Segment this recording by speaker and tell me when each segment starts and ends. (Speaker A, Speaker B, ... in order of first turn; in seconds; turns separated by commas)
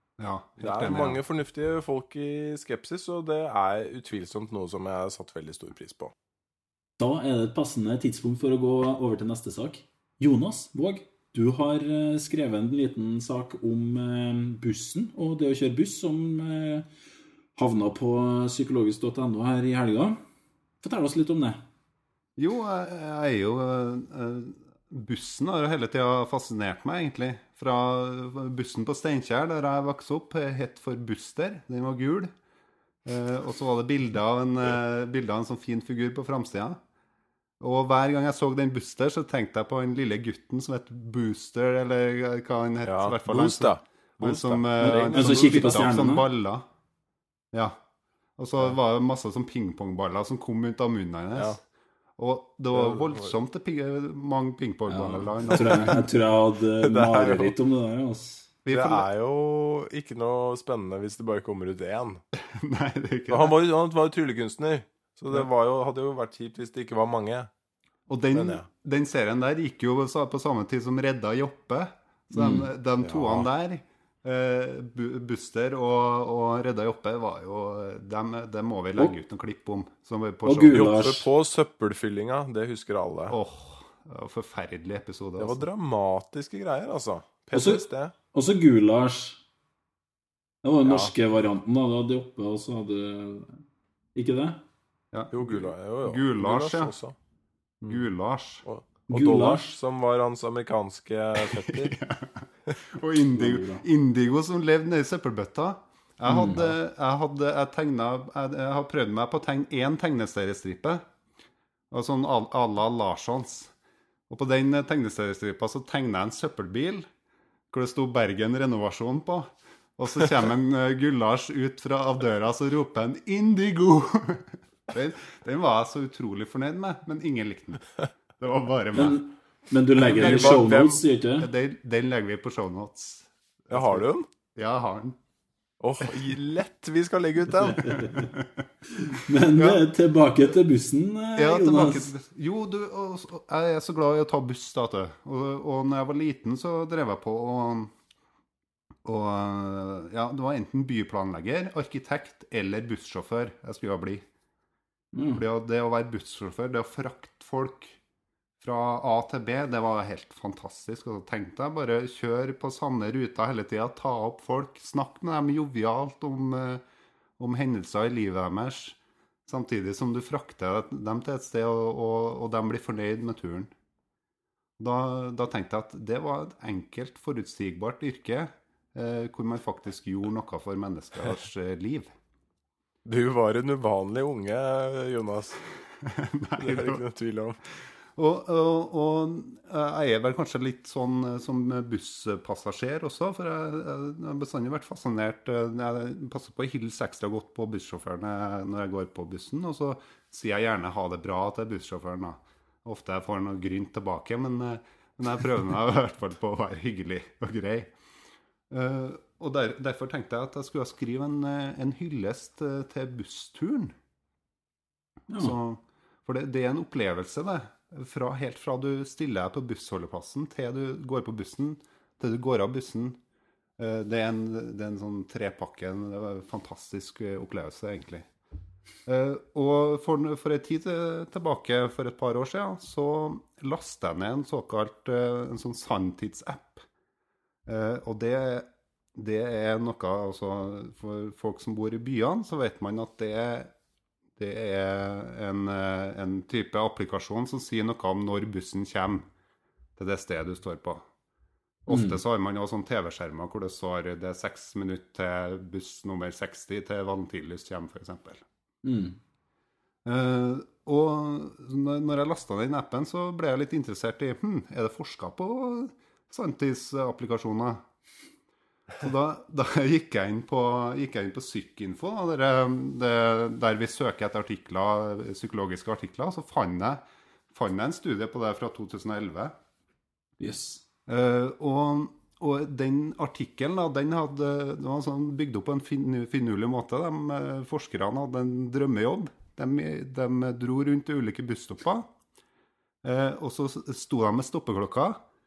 Speaker A: 0.2-1.2, Speaker B: 0.6-6.1, Speaker C: 7.0-16.9, Speaker C: 17.6-20.2, Speaker C: 20.8-21.6, Speaker A: 22.4-32.3, Speaker A: 33.0-36.8, Speaker A: 37.6-46.6, Speaker B: 42.8-45.9, Speaker C: 44.8-46.3, Speaker A: 47.5-47.8, Speaker A: 48.4-51.6, Speaker A: 52.2-56.0, Speaker B: 52.7-53.3, Speaker C: 54.9-58.5, Speaker B: 55.4-55.7, Speaker B: 56.8-57.5, Speaker A: 58.6-59.1, Speaker B: 58.7-62.2, Speaker A: 62.3-63.5, Speaker B: 63.3-67.5, Speaker A: 68.1-80.9, Speaker B: 68.3-68.7, Speaker C: 72.3-72.7, Speaker B: 73.0-73.5, Speaker C: 80.4-81.3, Speaker B: 80.7-83.3, Speaker A: 83.3-85.6, Speaker B: 85.4-88.1, Speaker C: 87.5-89.4, Speaker C: 90.6-93.6, Speaker B: 90.8-91.1, Speaker C: 94.1-94.6, Speaker A: 95.1-96.9, Speaker B: 95.3-97.1, Speaker A: 97.8-98.6, Speaker B: 98.6-102.0, Speaker C: 99.1-99.6, Speaker A: 101.4-111.0, Speaker C: 103.3-103.8, Speaker C: 106.2-106.8, Speaker A: 111.9-113.7, Speaker A: 114.3-117.0, Speaker A: 117.7-129.2, Speaker C: 128.9-131.5, Speaker A: 130.0-135.2, Speaker B: 130.0-131.0, Speaker B: 133.7-134.3, Speaker B: 135.8-137.9, Speaker C: 137.6-138.3, Speaker A: 137.8-138.6, Speaker C: 139.1-142.1, Speaker A: 139.6-139.8, Speaker A: 141.3-147.9, Speaker A: 149.0-154.2, Speaker C: 155.1-155.4, Speaker A: 155.3-158.0, Speaker A: 158.6-166.8, Speaker A: 167.4-173.7, Speaker A: 174.8-182.1, Speaker B: 183.1-185.6, Speaker A: 186.0-187.0, Speaker B: 186.6-187.6, Speaker A: 188.2-207.9, Speaker A: 208.7-213.9, Speaker C: 215.3-215.6, Speaker A: 215.4-223.2, Speaker A: 223.8-228.3, Speaker A: 229.1-236.8, Speaker A: 237.7-243.7, Speaker A: 244.4-249.3, Speaker A: 250.0-251.0, Speaker A: 251.8-258.4, Speaker C: 251.9-252.2, Speaker C: 258.8-259.2, Speaker A: 260.0-267.8, Speaker A: 269.0-277.0, Speaker A: 277.5-279.5, Speaker C: 280.4-280.8, Speaker A: 281.1-292.1, Speaker A: 293.0-295.2